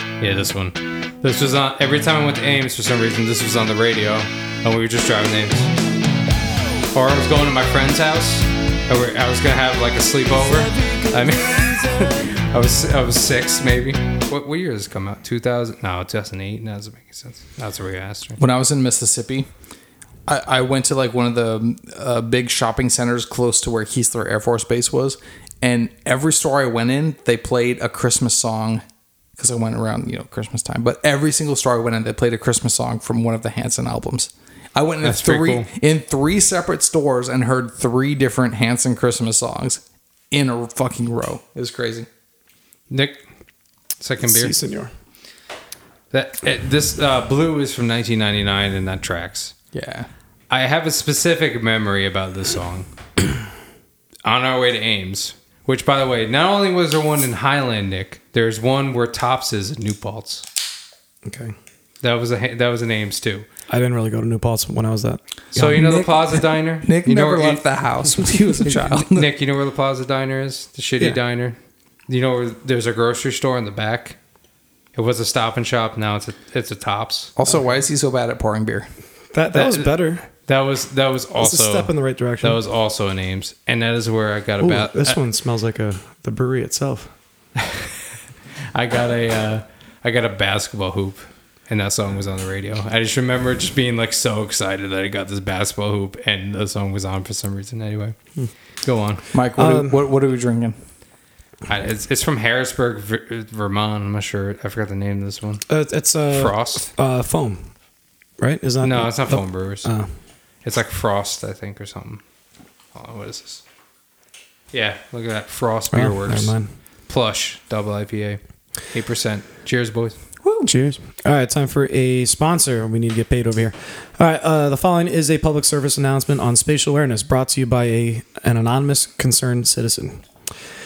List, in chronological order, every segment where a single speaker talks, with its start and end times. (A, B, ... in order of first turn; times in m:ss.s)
0:00.2-0:05.7 A
0:06.9-0:18.4 A
0:18.4-0:19.5 B
0:20.3-0:28.8 B
0:29.4-0:42.1 B
0:35.0-0:35.7 A
0:42.9-0:43.2 A
0:44.0-0:44.5 A
0:44.2-0:44.9 C
0:46.1-0:49.5 A
0:49.7-0:50.1 B
0:50.5-0:52.9 A
0:54.2-1:00.4 A
1:01.2-1:01.5 C
1:02.0-1:03.5 A
1:03.7-1:06.0 C
1:05.5-1:07.6 A
1:05.7-1:09.3 B
1:08.6-1:11.6 A
1:12.1-1:14.2 A
1:14.9-1:17.3 A
1:17.4-1:18.9 B
1:19.3-1:20.3 C
1:19.5-1:25.2 A
1:21.4-1:22.6 C
1:24.6-1:27.1 C
1:28.7-1:38.2 A
1:38.8-1:39.2 A
1:39.3-1:40.8 B
1:39.6-1:40.0 C
1:41.7-1:45.6 A
1:45.7-1:47.7 C
1:46.3-1:46.9 A
1:48.4-1:50.1 C
1:48.8-1:49.9 A
1:50.6-1:52.2 A
1:52.9-1:53.6 A
1:54.7-1:56.5 A
1:55.9-1:56.7 C
1:57.1-1:58.4 A
1:58.9-2:00.2 A
2:00.4-2:00.7 B
2:00.6-2:10.2 C